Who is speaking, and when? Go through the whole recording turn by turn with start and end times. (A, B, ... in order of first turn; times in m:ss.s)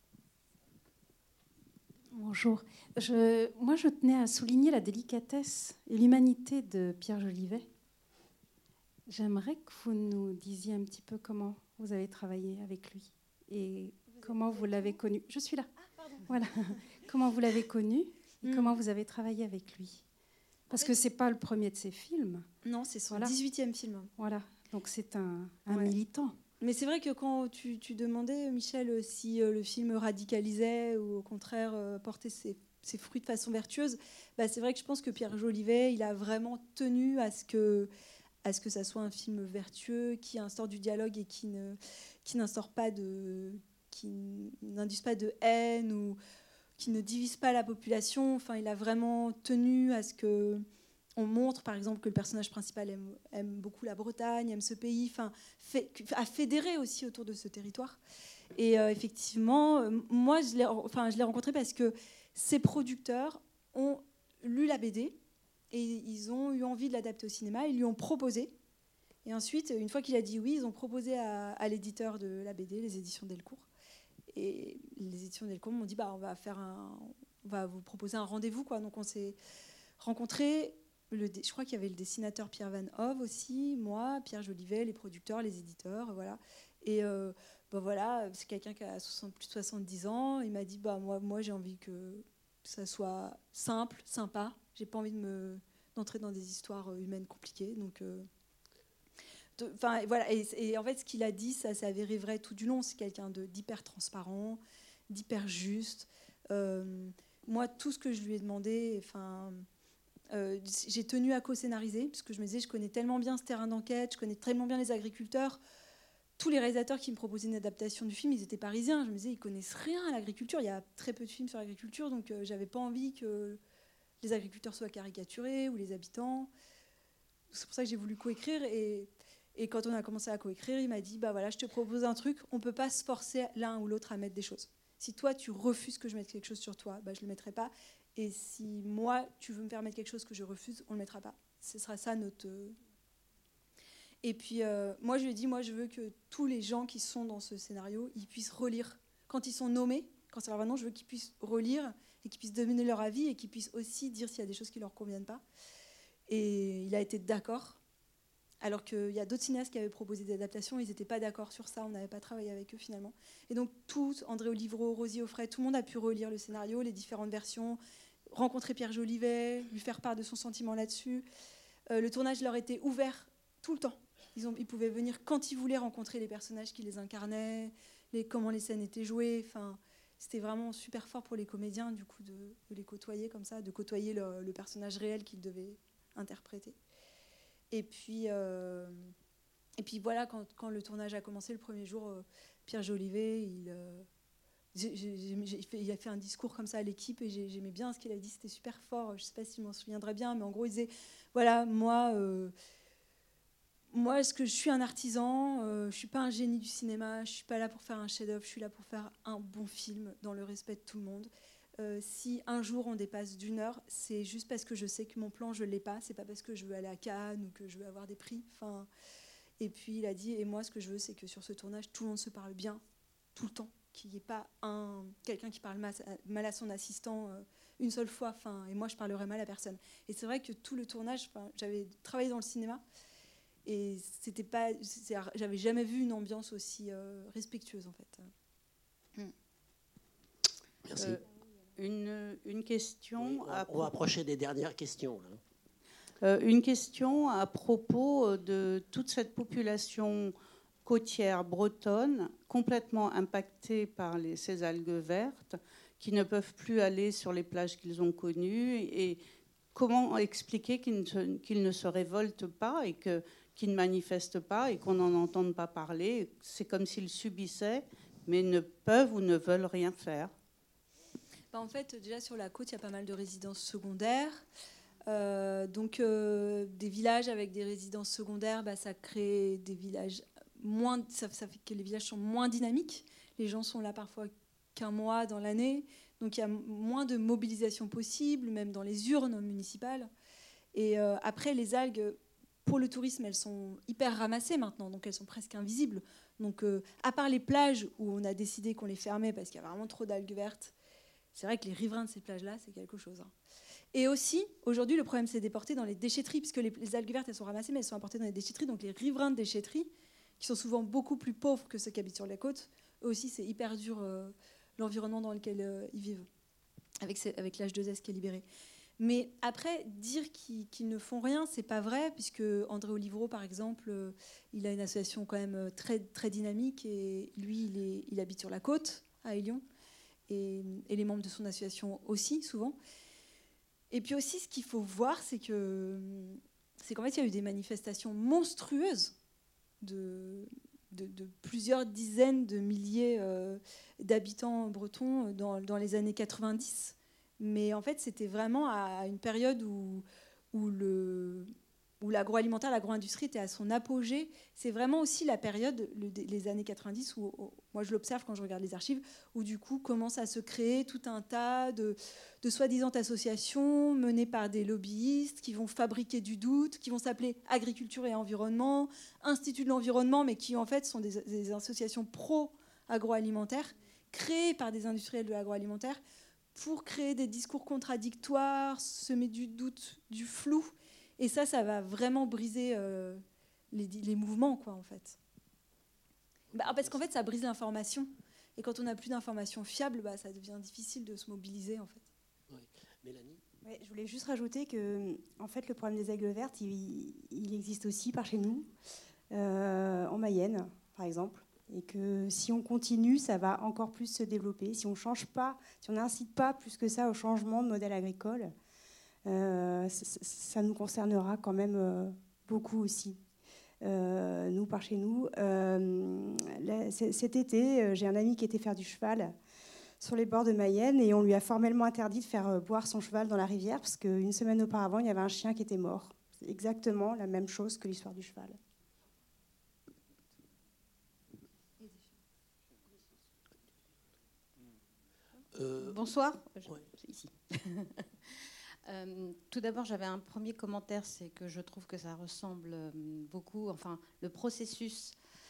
0:02.1-0:07.7 A
0:09.1-0:15.7 A
0:16.2-0:20.0 A
0:18.4-0:18.8 B
0:20.7-0:22.5 A
0:22.6-0:24.1 B
0:23.1-0:23.3 A
0:24.2-0:26.4 A
0:25.7-0:25.9 B
0:26.6-0:37.9 B
0:38.4-0:46.2 B
0:46.8-0:50.6 B
0:51.2-0:58.0 B
0:58.6-1:05.2 B
1:05.7-1:08.5 B
1:09.2-1:13.7 B
1:14.3-1:19.4 B
1:20.0-1:38.2 B
1:39.6-1:49.6 B
1:50.3-1:55.6 B
1:56.4-2:03.6 B
2:04.2-2:06.5 B
2:07.5-2:22.8 B
2:24.2-2:35.4 B
2:36.3-2:37.8 B
2:38.6-2:47.8 B
2:48.3-2:51.2 B
2:51.9-3:06.8 B
3:07.7-3:09.1 B
3:09.8-3:14.0 B
3:14.7-3:22.5 B
3:23.9-3:38.9 B
3:39.6-3:42.8 B
3:43.3-3:52.8 B
3:53.6-3:58.3 B
4:00.9-4:01.2 C
4:01.0-4:01.2 D
4:01.8-4:03.9 D
4:03.2-4:05.4 C
4:06.2-4:19.2 D
4:19.7-4:30.3 D
4:31.5-4:34.4 B
4:35.1-4:50.1 B
4:50.7-5:00.7 B
5:01.3-5:03.3 B
5:03.9-5:16.2 B
5:17.0-5:18.4 B
5:19.0-5:29.6 B
5:30.3-5:32.8 B
5:33.9-5:39.1 B
5:39.8-5:51.5 B
5:52.0-6:16.0 B
6:16.5-6:25.2 B
6:26.5-6:26.9 C
6:26.5-6:32.1 B
6:32.5-6:33.4 C
6:33.6-6:38.7 E
6:39.3-6:48.5 E
6:49.2-6:53.2 E
6:53.8-6:59.3 E
7:00.0-7:08.6 E
7:15.5-7:15.9 C
7:15.7-7:18.0 F
7:18.9-7:25.2 F